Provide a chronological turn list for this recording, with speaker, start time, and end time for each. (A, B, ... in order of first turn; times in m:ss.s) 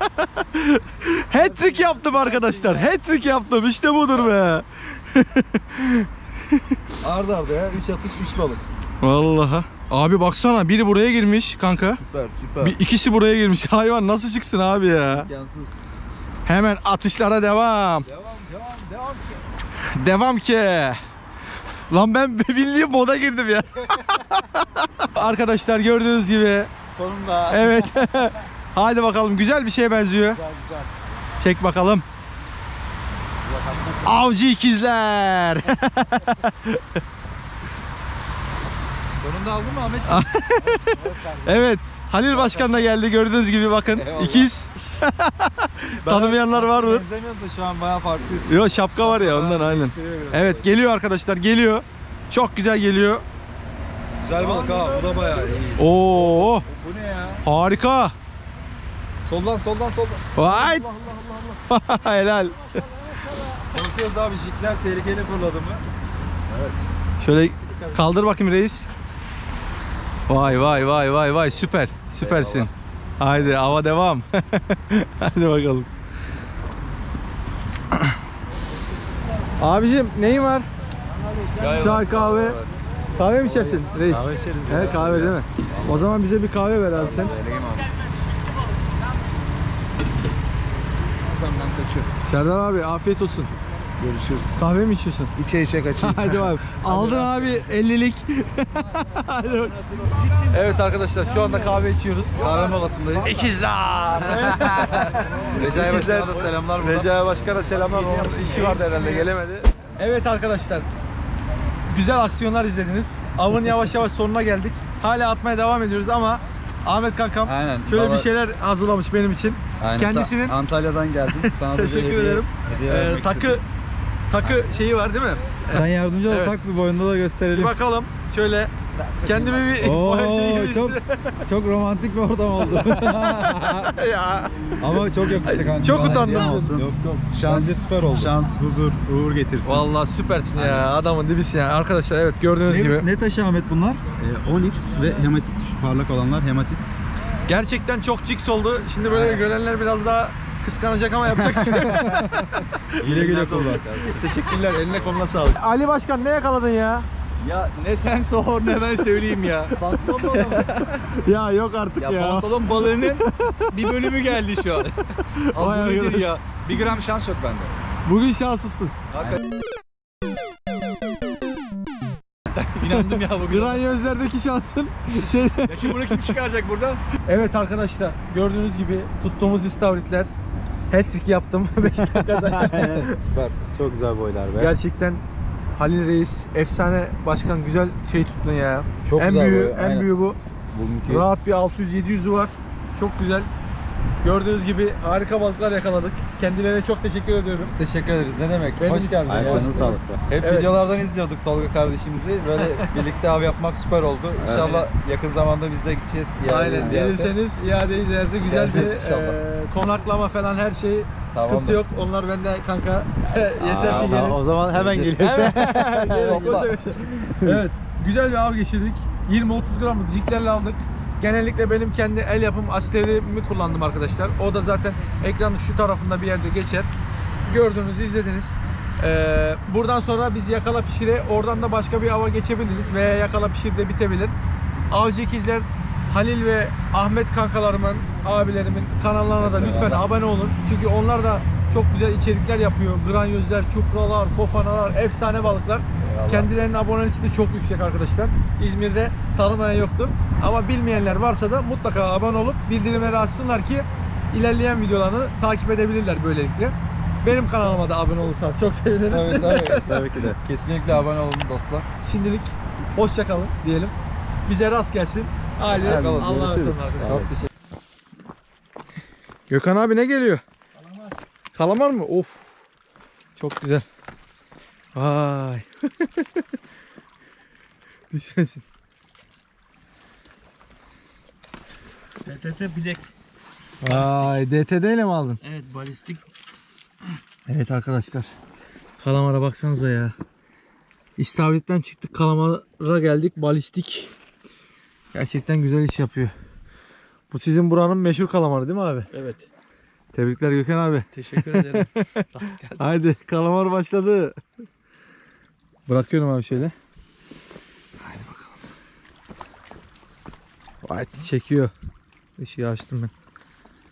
0:00.2-0:06.1 A
0:01.3-0:02.9 B
0:07.0-0:08.6 B
0:09.0-0:12.0 A
0:12.0-0:12.8 B
0:12.6-0:15.3 A
0:15.0-0:15.8 B
0:16.4-0:18.0 A
0:18.0-0:19.4 B
0:19.9-0:21.0 A
0:21.9-0:26.7 A
0:26.9-0:28.1 B
0:27.5-0:30.4 A
0:30.2-0:30.9 B
0:31.4-0:32.0 A
0:33.4-0:34.2 B
0:34.0-0:36.8 A
0:39.2-0:41.7 B
0:40.0-0:40.9 A
0:41.4-0:47.0 A
0:42.3-0:42.9 B
0:43.9-0:44.6 B
0:46.0-0:50.7 B
0:48.5-0:53.2 A
0:54.2-0:57.4 B
0:54.3-0:55.7 C
0:55.8-0:56.6 A
0:57.4-0:58.1 A
0:59.2-1:01.6 B
1:00.3-1:00.9 A
1:01.7-1:02.8 A
1:02.7-1:03.6 C
1:03.7-1:05.8 B
1:06.5-1:06.8 B
1:07.2-1:08.9 A
1:10.3-1:15.9 A
1:10.4-1:10.9 B
1:12.2-1:12.7 B
1:13.3-1:13.6 B
1:19.6-1:20.7 A
1:21.3-1:21.9 C
1:21.5-1:26.2 B
1:21.7-1:22.6 A
1:23.2-1:27.3 A
1:24.2-1:25.1 D
1:26.9-1:27.9 B
1:31.2-1:32.1 D
1:32.2-1:33.5 A
1:34.0-1:34.6 D
1:34.6-1:35.3 A
1:35.4-1:36.6 D
1:36.0-1:39.8 A
1:36.8-1:37.5 B
1:39.1-1:40.5 B
1:40.1-1:41.8 C
1:40.5-1:42.6 A
1:42.3-1:43.5 B
1:43.2-1:50.9 A
1:44.2-1:49.3 B
1:45.0-1:45.9 D
1:51.9-2:00.6 A
1:57.4-1:58.3 B
1:59.8-2:03.6 B
2:01.3-2:03.6 A
2:04.3-2:06.6 A
2:05.7-2:07.7 B
2:07.5-2:11.4 A
2:09.0-2:14.0 B
2:12.6-2:14.6 A
2:14.8-2:19.9 B
2:15.4-2:16.9 A
2:19.6-2:23.1 A
2:20.5-2:20.9 B
2:22.6-2:26.9 B
2:27.5-2:37.0 A
2:29.0-2:29.4 B
2:31.3-2:35.1 B
2:37.4-2:41.0 B
2:39.8-2:44.2 A
2:42.0-2:47.7 B
2:45.3-2:46.4 A
2:48.0-2:48.9 A
2:49.1-2:49.4 B
2:52.5-2:53.9 B
2:52.9-2:56.3 A
2:55.2-2:57.0 B
2:57.2-3:00.3 A
3:00.9-3:03.2 A
3:02.0-3:04.7 B
3:04.6-3:05.2 A
3:05.8-3:10.4 A
3:09.0-3:10.1 B
3:10.7-3:11.3 B
3:11.1-3:13.5 A
3:14.2-3:17.7 A
3:17.6-3:27.3 B
3:18.8-3:20.8 A
3:19.3-3:20.0 D
3:24.5-3:24.9 A
3:26.4-3:46.9 A
3:28.4-3:29.4 B
3:31.3-3:31.8 B
3:33.5-3:36.7 B
3:33.7-3:35.2 D
3:47.4-3:54.3 A
3:54.9-4:19.9 A
3:59.4-4:00.1 B
4:06.0-4:06.5 B
4:19.1-4:21.9 B
4:22.0-4:23.9 A
4:24.5-4:27.4 A
4:25.6-4:27.5 B
4:29.5-4:30.4 A
4:30.7-4:31.2 C
4:31.5-4:32.6 A
4:33.4-4:33.8 A
4:34.9-4:36.4 A
4:38.1-4:38.6 A
4:42.2-4:43.0 C
4:43.8-4:45.4 A
4:43.8-4:44.4 C
4:45.4-4:46.2 C
4:47.5-4:48.3 A
4:49.0-4:50.1 A
4:51.2-4:54.1 A
4:55.1-4:56.3 A
4:57.3-4:59.1 A
4:59.1-4:59.5 C
5:00.1-5:02.2 A
5:01.1-5:02.9 C
5:02.8-5:04.4 A
5:05.9-5:06.7 A
5:08.0-5:08.5 A
5:10.8-5:11.7 A
5:12.4-5:13.1 A